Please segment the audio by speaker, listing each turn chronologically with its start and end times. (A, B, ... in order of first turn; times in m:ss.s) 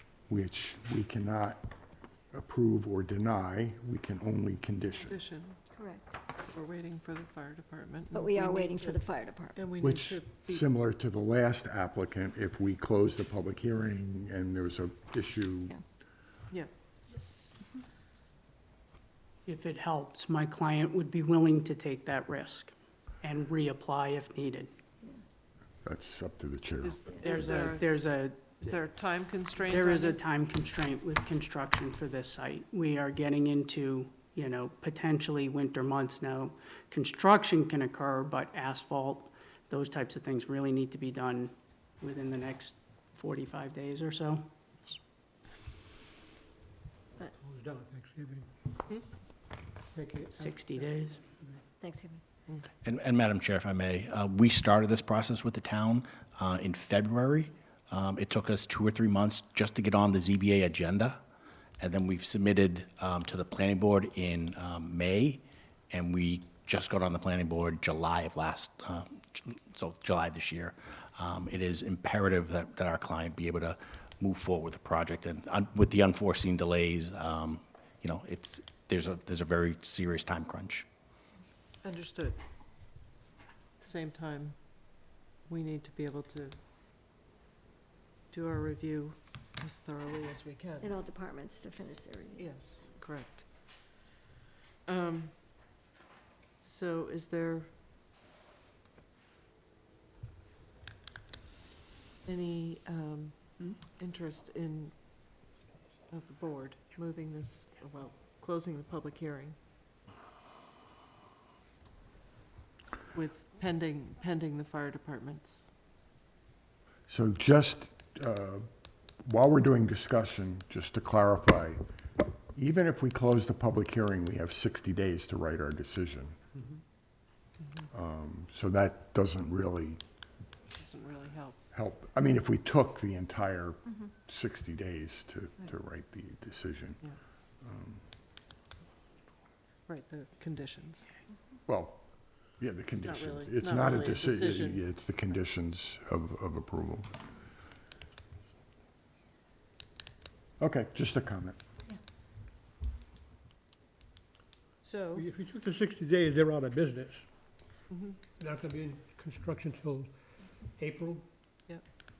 0:00.3-0:01.7 A
0:02.3-0:05.2 A
0:05.0-0:05.6 B
0:05.7-0:06.2 C
0:06.5-0:10.7 B
0:08.1-0:09.6 C
0:09.8-0:15.8 A
0:19.4-0:24.7 D
0:25.8-0:27.2 A
0:26.8-0:28.0 B
0:27.2-0:28.7 D
0:28.6-0:30.2 B
0:29.6-0:44.5 D
0:47.4-0:48.5 E
0:49.9-0:50.4 E
0:50.3-0:50.9 B
0:50.4-0:51.2 D
0:51.8-0:52.2 C
0:52.8-1:01.2 F
1:01.8-1:20.8 F
1:21.8-1:22.4 B
1:23.8-1:26.6 B
1:28.3-1:31.0 B
1:30.8-1:32.5 C
1:32.4-1:33.9 B
1:34.8-1:35.4 B
1:36.6-1:37.7 B
1:42.2-1:45.4 B
1:46.1-1:49.6 B
1:53.1-1:55.7 B
1:57.1-1:58.6 A
1:59.2-2:01.8 A
2:02.5-2:06.4 A
2:07.9-2:10.0 A
2:10.7-2:11.6 B
2:11.7-2:17.0 A
2:17.6-2:18.0 A
2:19.9-2:21.1 B
2:21.6-2:27.2 A
2:23.0-2:24.8 B
2:30.6-2:31.6 A
2:34.8-2:35.3 B
2:35.2-2:37.3 E
2:37.9-2:38.2 B
2:38.4-2:40.2 E
2:40.8-2:41.3 E